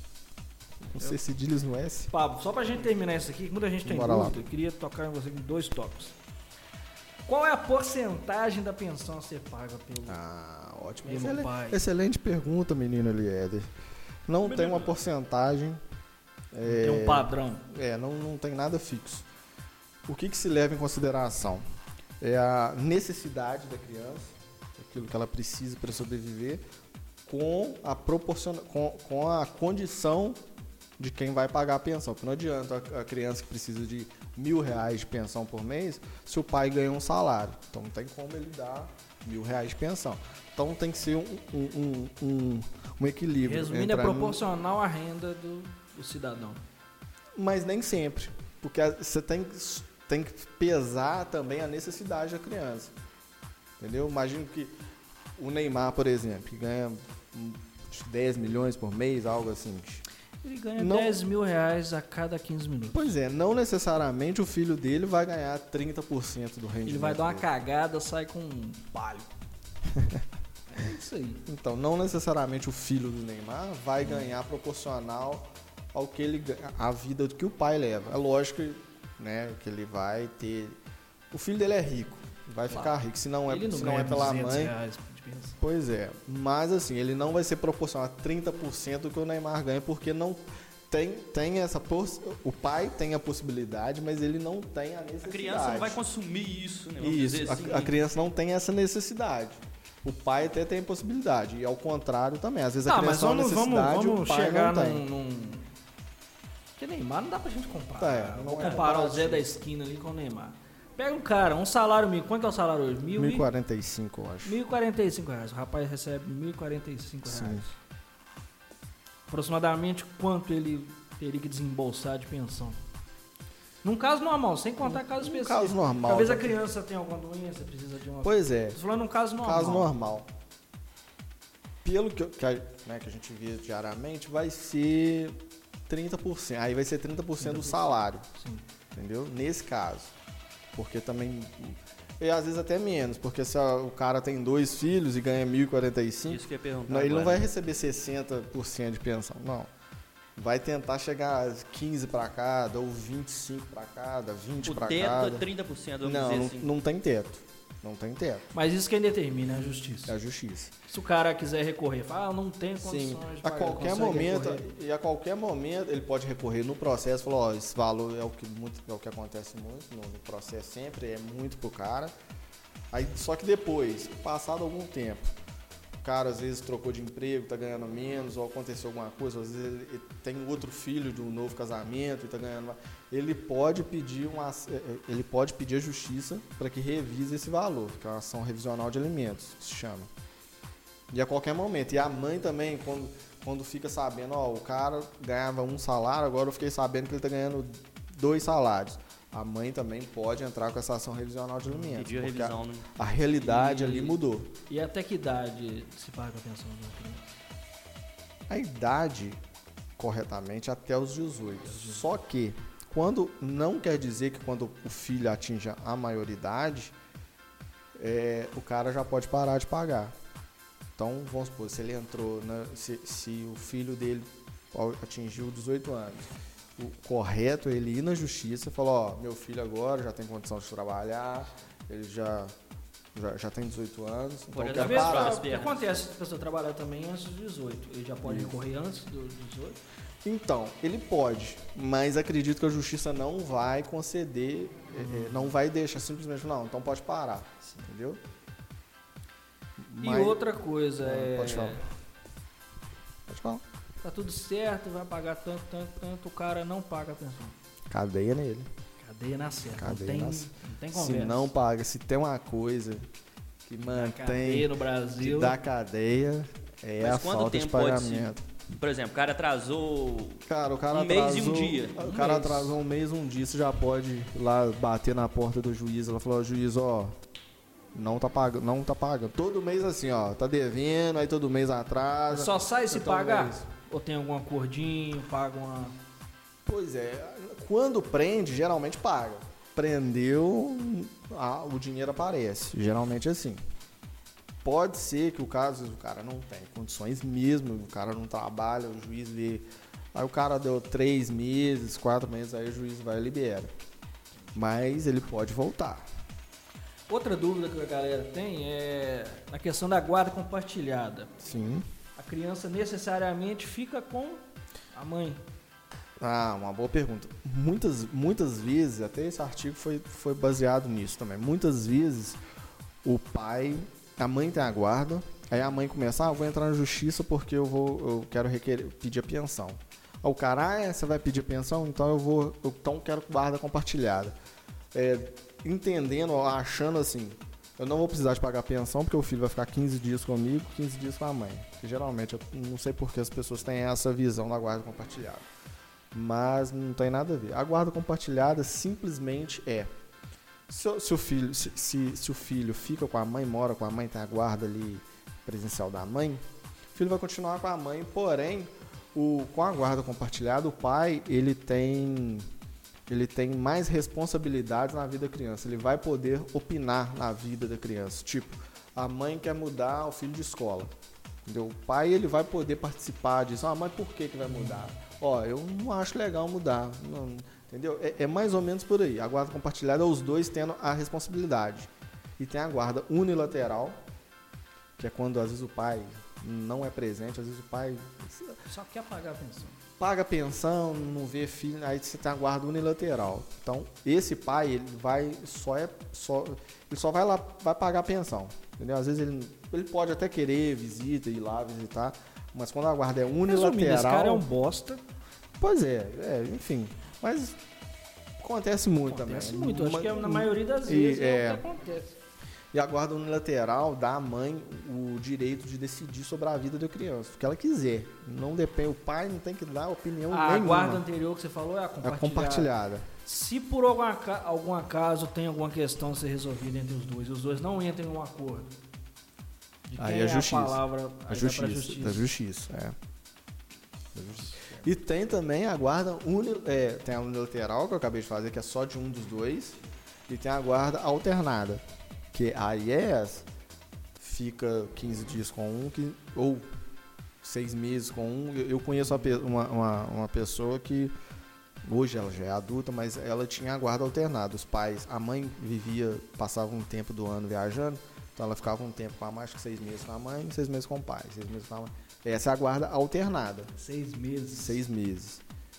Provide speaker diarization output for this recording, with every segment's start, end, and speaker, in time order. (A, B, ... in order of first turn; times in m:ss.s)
0:00.9-0:02.1 A
0:02.1-0:06.2 B
0:03.8-0:04.4 A
0:07.3-0:10.2 B
0:10.1-0:13.7 A
0:11.0-0:11.8 B
0:14.3-0:15.8 A
0:14.4-0:15.0 C
0:16.5-0:19.3 A
0:16.6-0:17.6 B
0:20.0-0:21.6 A
0:22.2-0:26.6 A
0:27.2-0:30.4 A
0:31.0-0:44.4 A
0:43.4-0:46.6 B
0:47.4-0:52.9 A
0:53.8-0:54.7 A
0:55.4-1:00.0 A
1:00.4-1:03.2 B
1:00.8-1:01.2 A
1:02.9-1:07.5 A
1:06.8-1:09.3 B
1:09.9-1:10.2 A
1:10.7-1:11.4 B
1:11.4-1:20.8 A
1:21.3-1:24.7 A
1:22.7-1:25.6 B
1:25.6-1:36.0 A
1:35.2-1:37.9 C
1:37.0-1:45.0 A
1:42.9-1:45.7 B
1:46.8-1:53.5 B
1:48.0-1:49.5 A
1:53.2-1:54.6 A
1:54.4-1:57.7 B
1:57.2-1:57.6 A
1:59.3-2:02.8 B
2:03.8-2:09.9 B
2:04.8-2:06.6 A
2:08.2-2:08.8 A
2:09.4-2:10.3 A
2:11.8-2:18.2 A
2:17.4-2:18.6 B
2:18.9-2:20.1 A
2:20.7-2:29.7 A
2:26.3-2:27.5 C
2:30.4-2:35.5 A
2:34.6-2:36.7 C
2:36.0-2:38.5 A
2:38.5-2:40.2 B
2:40.1-2:40.7 A
2:40.9-2:44.6 B
2:42.8-2:52.1 A
2:52.9-2:55.4 A
2:56.0-3:10.1 A
3:11.1-3:24.5 A
3:21.9-3:22.9 C
3:23.4-3:24.1 B
3:23.6-3:23.9 C
3:24.7-3:27.4 B
3:28.5-3:29.4 A
3:30.0-3:36.9 A
3:31.6-3:32.0 B
3:38.0-3:40.2 A
3:41.0-3:52.5 A
3:53.1-3:55.4 A
3:54.5-3:55.8 C
3:54.7-3:59.8 B
3:58.2-3:58.6 A
4:00.2-4:08.2 A
4:05.0-4:05.5 B
4:09.8-4:10.4 A
4:10.0-4:11.8 B
4:11.0-4:11.8 A
4:13.3-4:13.6 A
4:14.0-4:17.6 B
4:17.9-4:18.7 A
4:19.0-4:21.5 B
4:19.7-4:23.0 A
4:23.6-4:28.4 A
4:23.8-4:25.6 B
4:27.0-4:32.0 C
4:30.5-4:37.2 A
4:32.0-4:32.8 B
4:37.9-4:43.7 A
4:42.3-4:46.0 B
4:46.6-4:53.6 A
4:54.6-5:03.7 A
5:04.5-5:06.0 A
5:07.1-5:11.3 B
5:11.4-5:11.9 A
5:12.2-5:15.4 B
5:16.2-5:22.4 A
5:23.0-5:34.4 A
5:34.9-5:45.5 A
5:46.1-5:49.9 A
5:50.7-5:56.4 A
5:56.9-6:02.5 A
6:03.1-6:10.9 A
6:11.4-6:24.0 A
6:25.0-6:28.6 A
6:28.6-6:29.8 B
6:30.0-6:44.4 A
6:43.4-6:45.0 B
6:45.6-6:47.6 A
6:48.4-6:51.6 A
6:49.0-6:52.2 B
6:52.7-7:01.0 A
7:00.3-7:08.7 B
7:02.0-7:03.1 A
7:09.9-7:12.3 B
7:10.0-7:13.0 A
7:14.1-7:23.5 A
7:14.4-7:14.8 B
7:24.2-7:26.7 A
7:27.4-7:31.1 A
7:31.8-7:43.7 A
7:43.7-7:44.8 B
7:44.5-7:45.4 A